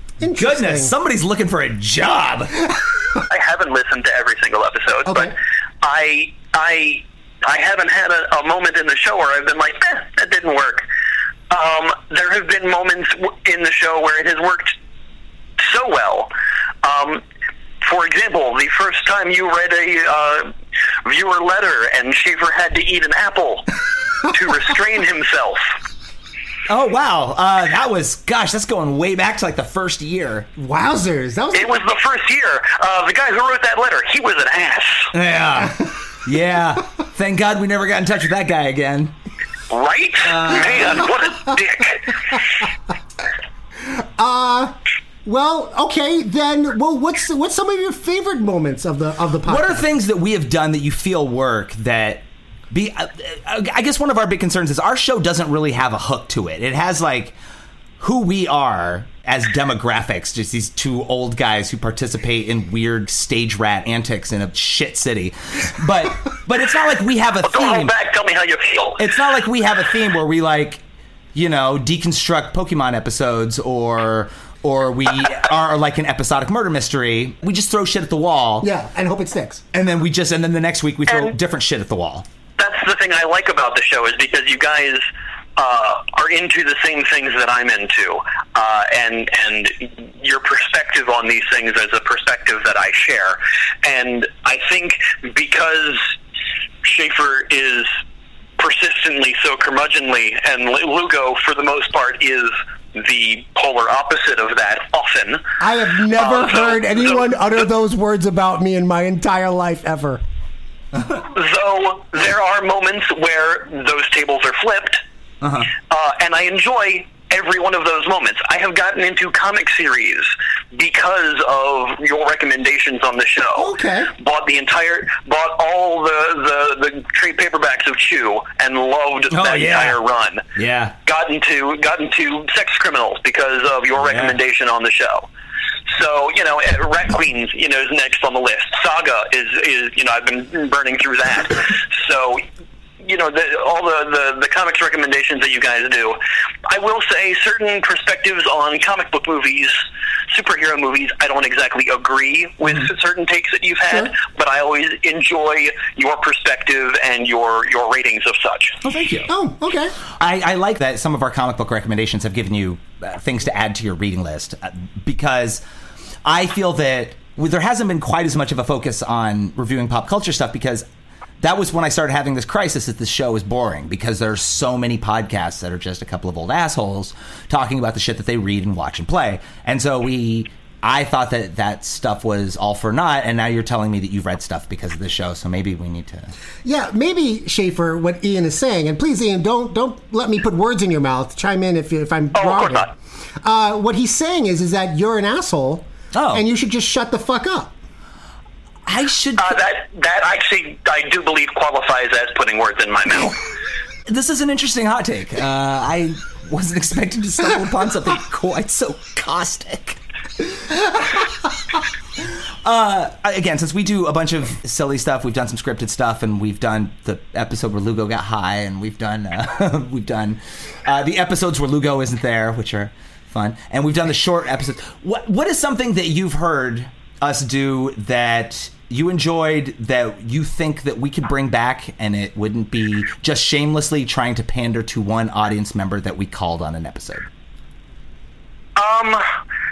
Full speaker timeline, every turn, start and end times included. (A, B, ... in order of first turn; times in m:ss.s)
0:00.2-0:00.9 A
0:00.2-0:02.6 B
0:03.3-0:10.9 C
0:05.0-0:05.3 A
0:11.5-0:14.7 C
0:15.6-0:16.3 C
0:16.8-0:17.2 C
0:17.8-0:20.5 C
0:21.0-0:23.6 C
0:24.3-0:25.7 C
0:26.7-0:30.5 B
0:30.6-0:31.8 A
0:31.5-0:35.1 C
0:35.1-0:39.1 B
0:39.7-0:42.2 C
0:40.2-0:41.0 B
0:43.8-0:49.9 A
0:49.4-0:57.4 B
0:58.0-1:07.9 B
1:07.4-1:09.0 C
1:09.0-1:10.8 B
1:11.3-1:18.7 B
1:18.6-1:19.6 A
1:19.7-1:22.2 B
1:21.1-1:21.3 C
1:22.6-1:36.2 C
1:36.8-1:37.9 C
1:38.6-1:45.4 C
1:45.6-1:50.2 A
1:46.1-1:47.4 C
1:51.3-1:55.0 C
1:55.4-1:55.7 B
1:55.8-2:10.4 C
2:03.6-2:04.1 A
2:09.3-2:10.0 B
2:10.5-2:10.9 B
2:11.0-2:15.3 C
2:14.0-2:14.4 B
2:15.9-2:22.4 C
2:23.0-2:38.8 C
2:33.9-2:34.1 A
2:38.8-2:39.3 B
2:39.3-2:39.9 A
2:40.2-2:45.6 B
2:46.2-2:50.8 B
2:51.4-3:06.3 B
3:06.6-3:17.7 A
3:12.3-3:12.9 C
3:16.1-3:16.4 B
3:18.9-3:19.6 B
3:19.4-3:23.3 C
3:24.1-3:30.0 B
3:32.6-3:57.3 B
3:58.8-3:59.2 C